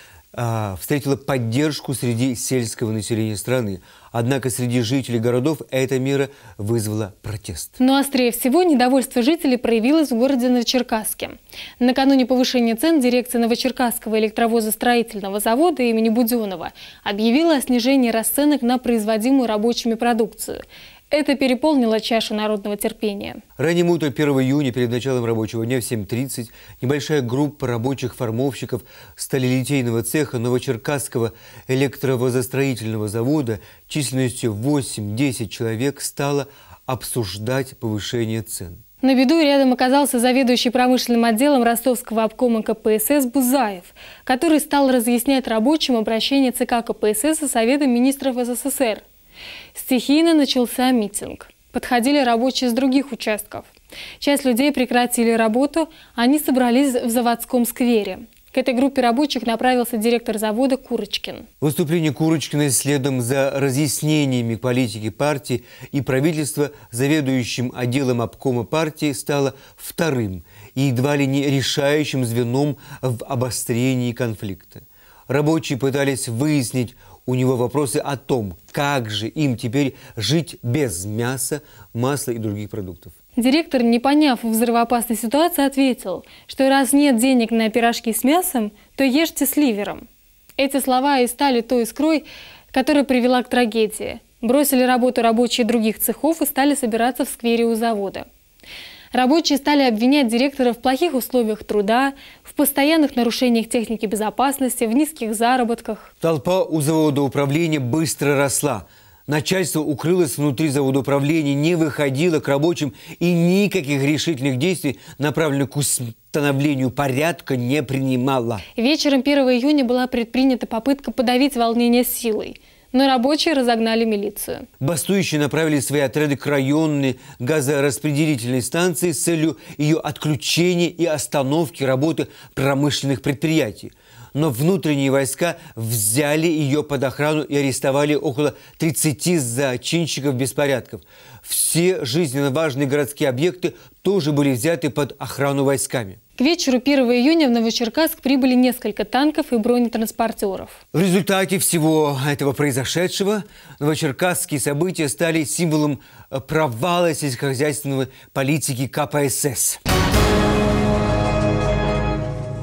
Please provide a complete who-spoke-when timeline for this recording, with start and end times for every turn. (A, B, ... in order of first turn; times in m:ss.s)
0:00.3-0:07.8 A
0:07.8-0:23.4 B
0:23.6-0:38.8 A
0:39.0-0:49.0 B
0:49.7-0:53.7 B
0:54.2-1:01.5 B
1:01.6-1:23.2 A
1:23.4-1:30.1 B
1:30.6-1:38.3 B
1:39.1-1:46.1 B
1:46.2-1:58.6 A
1:58.8-2:04.7 B
2:04.8-2:26.2 A
2:26.4-2:30.8 B
2:30.9-2:39.8 A